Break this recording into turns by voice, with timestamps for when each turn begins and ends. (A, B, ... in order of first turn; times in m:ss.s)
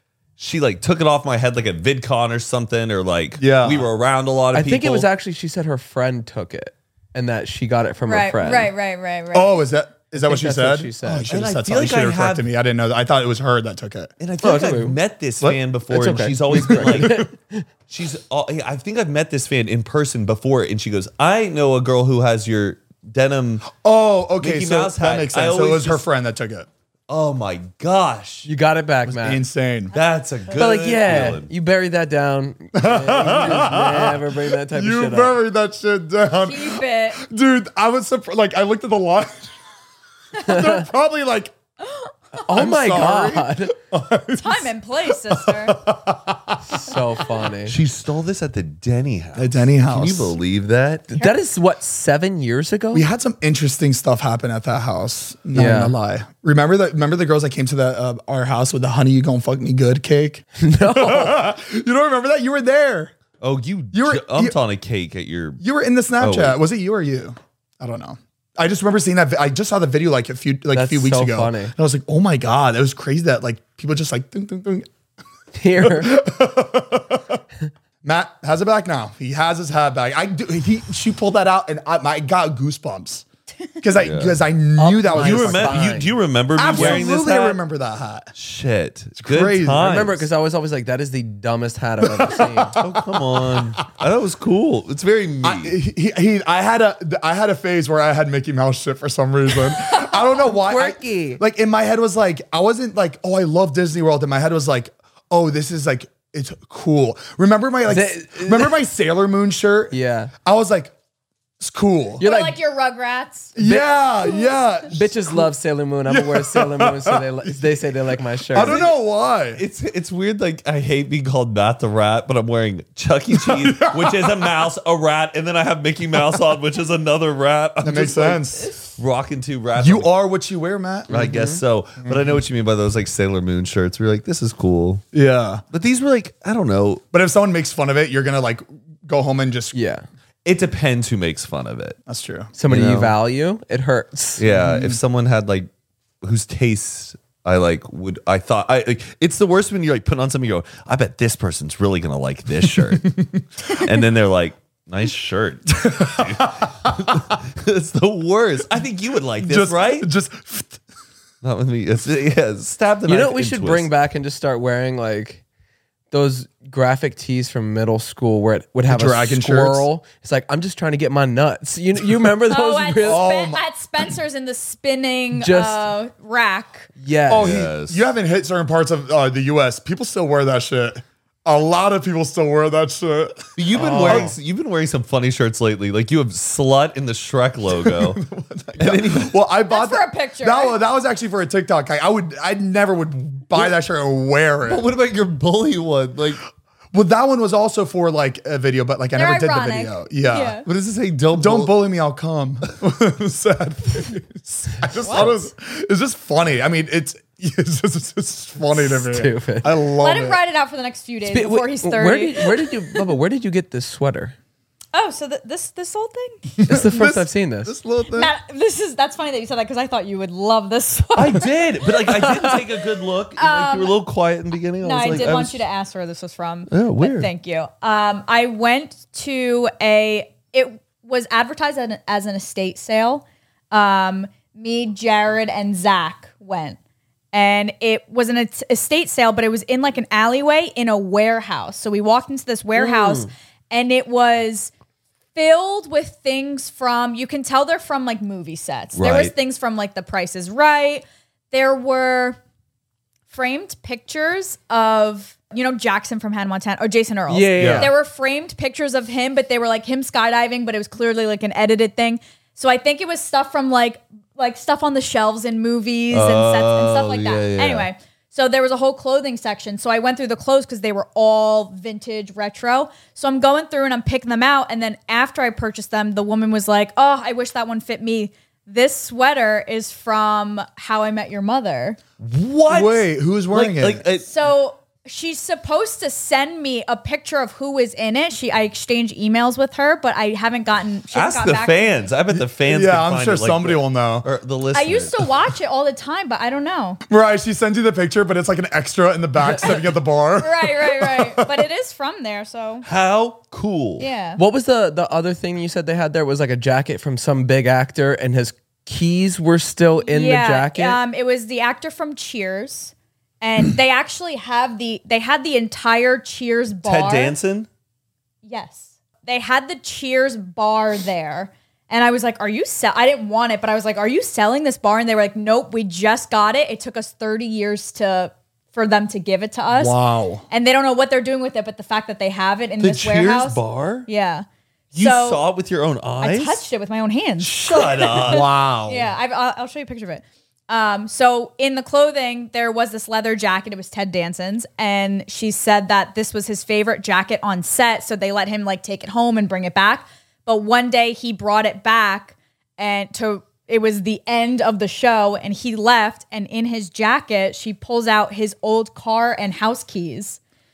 0:00.4-0:05.1 A
0:03.4-0:03.9 B
0:04.5-0:08.7 C
0:08.1-0:09.6 D
0:09.3-0:14.1 B
0:10.2-0:11.3 C
0:11.3-0:12.5 A
0:14.2-0:17.3 A
0:14.4-0:15.0 C
0:15.9-0:17.6 C
0:16.6-0:17.2 B
0:17.9-0:23.7 A
0:23.7-0:26.7 B
0:24.4-0:26.0 A
0:27.1-0:28.5 A
0:28.4-0:29.4 C
0:29.2-0:29.9 B
0:29.9-0:31.5 A
0:30.6-0:35.4 C
0:32.8-0:39.5 B
0:36.4-0:37.2 D
0:40.4-0:41.5 B
0:40.4-0:40.8 C
0:42.4-0:43.7 C
0:42.5-0:46.9 B
0:44.4-0:45.8 D
0:46.7-0:47.8 C
0:47.7-0:51.1 A
0:49.4-0:50.4 B
0:51.1-0:53.1 C
0:52.9-1:03.1 B
0:55.5-0:56.0 C
1:00.6-1:01.4 C
1:03.4-1:05.6 A
1:03.9-1:04.6 B
1:05.6-1:14.9 B
1:06.2-1:06.6 A
1:10.7-1:11.7 C
1:15.5-1:16.2 C
1:15.8-1:17.4 B
1:18.0-1:23.2 B
1:23.8-1:25.9 B
1:24.0-1:24.4 A
1:24.8-1:26.1 C
1:25.2-1:27.6 A
1:26.6-1:28.3 B
1:26.8-1:27.0 C
1:28.4-1:30.3 A
1:29.2-1:29.9 B
1:29.8-1:32.8 C
1:32.0-1:33.6 B
1:32.8-1:35.8 A
1:35.4-1:50.9 B
1:40.4-1:41.4 C
1:47.9-1:48.8 C
1:49.9-1:50.3 C
1:51.6-1:52.3 B
1:52.2-1:53.6 D
1:52.2-1:52.6 C
1:53.6-1:55.5 B
1:53.6-1:53.9 C
1:54.9-1:58.8 C
1:56.1-1:57.9 B
1:58.5-1:59.6 B
1:58.6-1:59.0 A
1:59.6-2:10.1 A
2:03.3-2:04.6 B
2:07.8-2:08.8 B
2:09.8-2:11.2 B
2:11.1-2:11.6 C
2:11.1-2:15.0 A
2:12.0-2:12.4 B
2:15.1-2:15.6 B
2:15.7-2:17.0 A
2:17.1-2:19.8 B
2:19.7-2:20.0 C
2:20.4-2:22.0 A
2:22.1-2:22.5 B
2:22.6-2:24.5 C
2:22.7-2:23.2 A
2:24.4-2:25.7 A
2:24.5-2:25.0 B
2:26.2-2:40.1 A
2:32.8-2:33.4 B
2:35.8-2:37.2 B
2:39.4-2:40.8 B
2:41.4-2:43.9 A
2:43.1-2:45.4 C
2:46.1-2:53.2 C
2:48.9-2:49.9 B
2:52.5-2:56.9 D
2:53.0-2:53.6 B
2:55.3-2:55.9 C
2:57.0-2:57.6 C
2:57.3-3:04.3 B
2:57.3-2:58.0 A
3:03.6-3:08.2 A
3:03.7-3:04.3 C
3:07.7-3:14.9 B
3:08.8-3:09.4 A
3:09.7-3:10.8 D
3:14.6-3:16.4 A
3:16.9-3:20.6 B
3:19.2-3:20.7 D
3:20.6-3:21.8 A
3:21.3-3:30.4 B
3:25.0-3:25.4 D
3:28.8-3:29.7 C
3:30.0-3:32.7 D
3:31.3-3:34.4 C
3:34.9-3:36.5 D
3:36.6-3:38.3 B
3:36.7-3:37.7 C
3:38.1-3:41.6 D
3:41.2-3:45.6 A
3:43.4-3:44.0 D
3:44.8-3:56.8 D
3:46.7-3:47.3 A
3:57.3-4:04.7 D
4:02.8-4:03.2 C
4:05.4-4:12.4 D
4:09.0-4:09.3 A
4:13.3-4:42.0 D
4:17.3-4:17.9 C
4:17.6-4:17.9 B
4:26.1-4:27.9 A
4:42.2-4:44.3 A
4:42.7-4:44.0 B
4:44.3-4:52.1 D
4:51.1-4:55.3 A
4:52.3-4:54.3 B
4:54.7-4:57.0 D
4:57.1-5:01.7 B
5:00.4-5:02.8 D
5:02.8-5:04.1 A
5:04.0-5:04.4 D
5:04.4-5:11.0 C
5:10.0-5:17.4 D
5:16.8-5:17.7 A
5:18.4-5:30.0 D
5:29.7-5:30.4 B
5:30.5-5:35.4 D
5:32.8-5:34.1 A
5:34.9-5:36.6 A
5:36.2-6:00.4 D
5:37.4-5:38.5 A
5:38.2-5:39.1 B